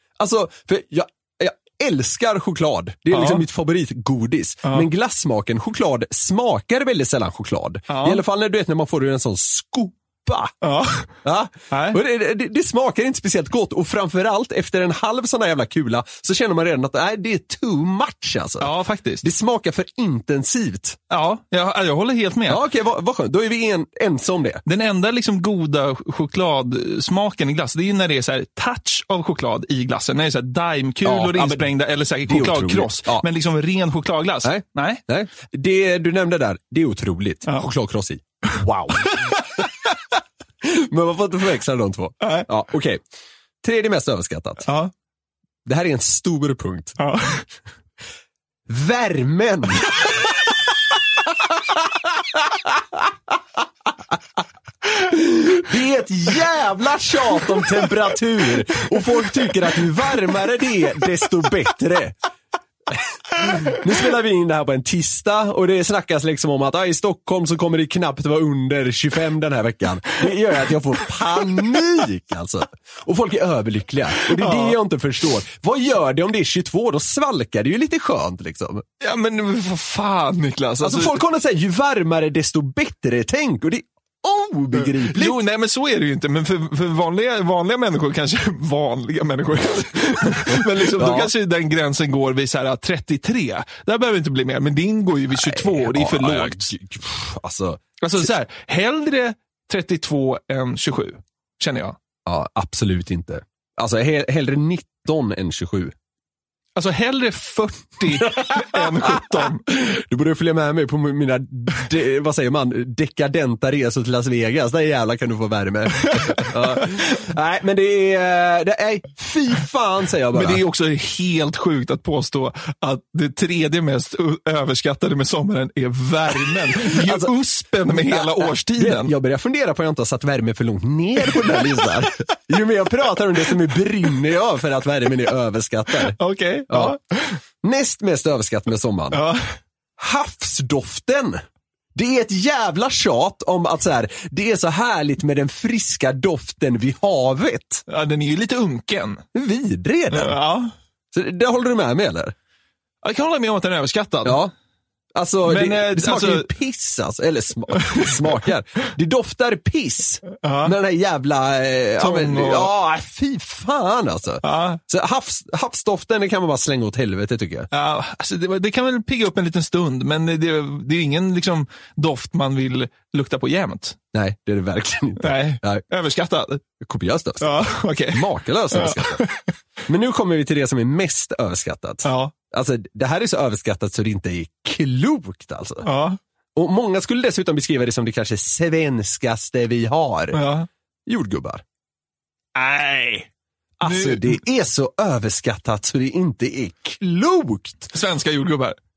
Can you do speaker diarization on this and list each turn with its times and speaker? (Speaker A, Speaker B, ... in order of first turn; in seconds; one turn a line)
Speaker A: 0.2-10.5
Speaker B: 3.1-3.4
Speaker B: 7.9-8.2
Speaker B: 10.6-11.2
Speaker A: 11.2-18.7
Speaker B: 11.7-12.0
Speaker B: 18.6-19.3
Speaker A: 19.2-21.0
Speaker B: 21.1-22.6
Speaker A: 22.5-24.6
Speaker B: 24.7-35.0
Speaker A: 31.0-31.7
Speaker A: 32.3-33.3
Speaker A: 34.4-39.6
Speaker A: 40.6-43.0
Speaker B: 42.2-42.5
Speaker A: 43.6-44.7
Speaker B: 44.7-44.9
Speaker A: 45.7-47.0
Speaker B: 47.0-47.5
Speaker A: 48.7-49.9
Speaker A: 55.0-62.1
Speaker A: 62.9-78.8
Speaker B: 74.4-74.8
Speaker B: 79.0-81.2
Speaker A: 80.8-85.4
Speaker B: 84.8-96.7
Speaker A: 90.5-91.3
Speaker A: 95.3-98.3
Speaker B: 98.0-102.0
Speaker A: 102.3-105.9
Speaker B: 106.8-109.6
Speaker A: 108.4-108.8
Speaker A: 109.7-120.6
Speaker B: 120.3-129.1
Speaker A: 126.8-127.3
Speaker A: 127.9-136.2
Speaker B: 136.2-137.4
Speaker A: 136.7-137.0
Speaker A: 137.6-139.2
Speaker B: 139.1-139.5
Speaker A: 140.0-141.4
Speaker A: 141.9-147.8
Speaker B: 147.9-149.2
Speaker A: 149.3-150.4
Speaker B: 150.1-150.7
Speaker A: 151.1-152.3
Speaker B: 153.0-154.4
Speaker A: 154.2-154.5
Speaker A: 155.2-167.7
Speaker B: 155.5-156.5
Speaker B: 160.4-160.8
Speaker B: 162.0-162.7
Speaker B: 164.4-164.8
Speaker B: 167.7-174.0
Speaker A: 174.1-175.8
Speaker B: 175.2-176.6
Speaker A: 176.8-179.3
Speaker B: 177.4-179.4
Speaker A: 179.9-185.9
Speaker B: 182.1-182.3
Speaker B: 185.8-186.2
Speaker A: 186.6-190.4
Speaker B: 190.3-190.7
Speaker A: 191.1-191.6
Speaker B: 192.6-193.3
Speaker A: 193.8-197.9
Speaker B: 193.8-194.4
Speaker B: 197.9-198.8